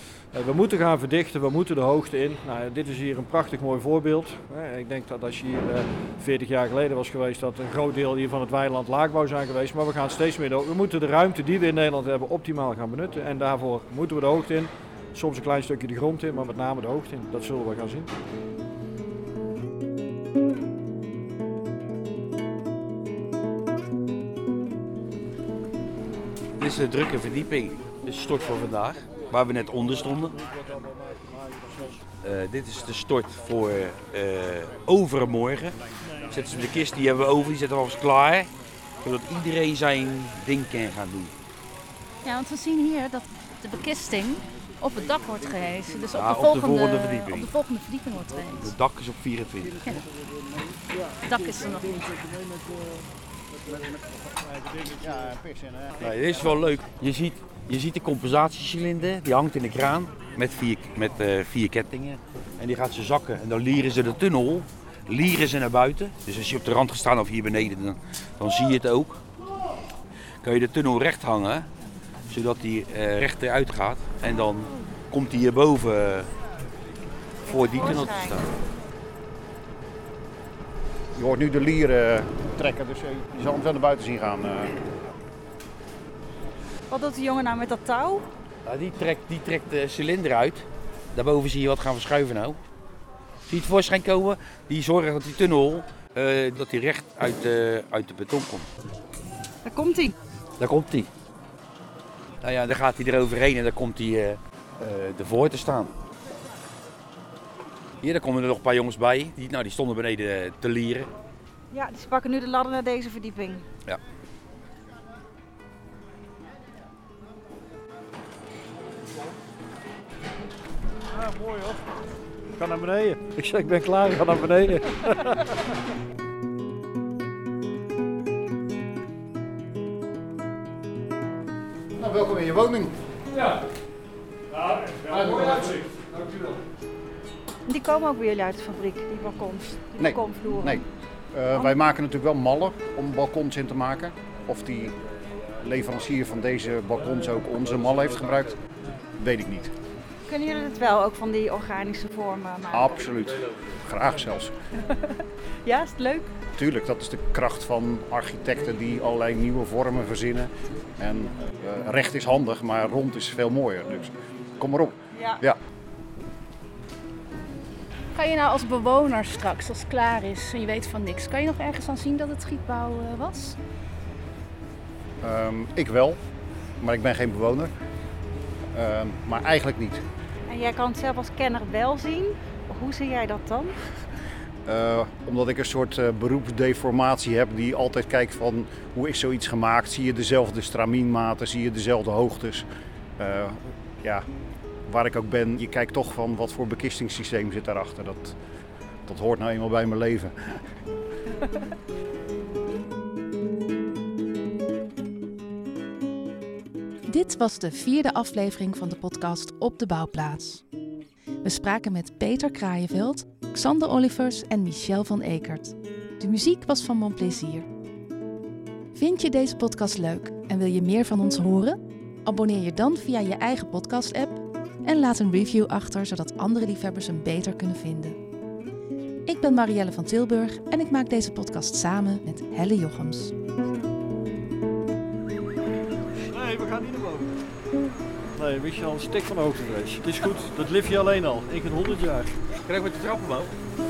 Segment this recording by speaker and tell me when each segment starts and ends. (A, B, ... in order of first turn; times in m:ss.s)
0:00.3-0:18.1 A
0:26.6-0:30.4 B
0:30.4-0:32.0 A
0:32.2-0:35.8 B
0:36.1-0:36.6 A
0:36.3-0:38.5 B
0:39.0-0:41.3 B
0:42.2-0:48.7 C
0:46.1-0:47.5 B
0:48.6-0:49.9 B
0:51.2-0:52.4 C
0:54.8-0:56.6 D
0:56.0-1:09.2 B
1:10.4-1:11.7 B
1:12.3-1:16.3 B
1:17.5-1:18.5 B
1:17.5-1:18.4 E
1:21.2-1:24.8 D
1:26.9-1:28.3 E
1:28.7-1:32.6 B
1:33.5-1:38.7 B
1:39.6-1:40.2 E
1:40.6-1:41.1 B
1:42.4-1:46.0 B
1:48.0-1:51.1 B
1:51.7-1:53.6 E
2:01.1-2:01.8 A
2:02.6-2:05.7 A
2:12.0-2:13.0 D
2:14.6-2:16.5 A
2:17.7-2:20.8 E
2:20.0-2:25.0 D
2:25.6-2:28.6 D
2:29.2-2:29.8 D
2:30.3-2:33.1 E
2:32.7-2:34.5 D
2:34.8-2:36.3 E
2:36.6-2:45.6 D
2:45.1-2:45.4 E
2:48.2-2:53.6 C
2:55.2-2:56.2 D
2:56.8-2:57.7 D
2:58.7-3:00.0 D
3:00.5-3:03.8 E
3:04.7-3:12.7 D
3:13.2-3:14.3 D
3:14.9-3:18.4 D
3:19.1-3:20.6 D
3:27.1-3:30.6 F
3:31.4-3:37.7 F
3:38.9-3:48.2 F
3:49.3-3:53.3 F
3:56.2-3:57.4 A
3:58.4-4:02.4 A
4:02.6-4:03.5 B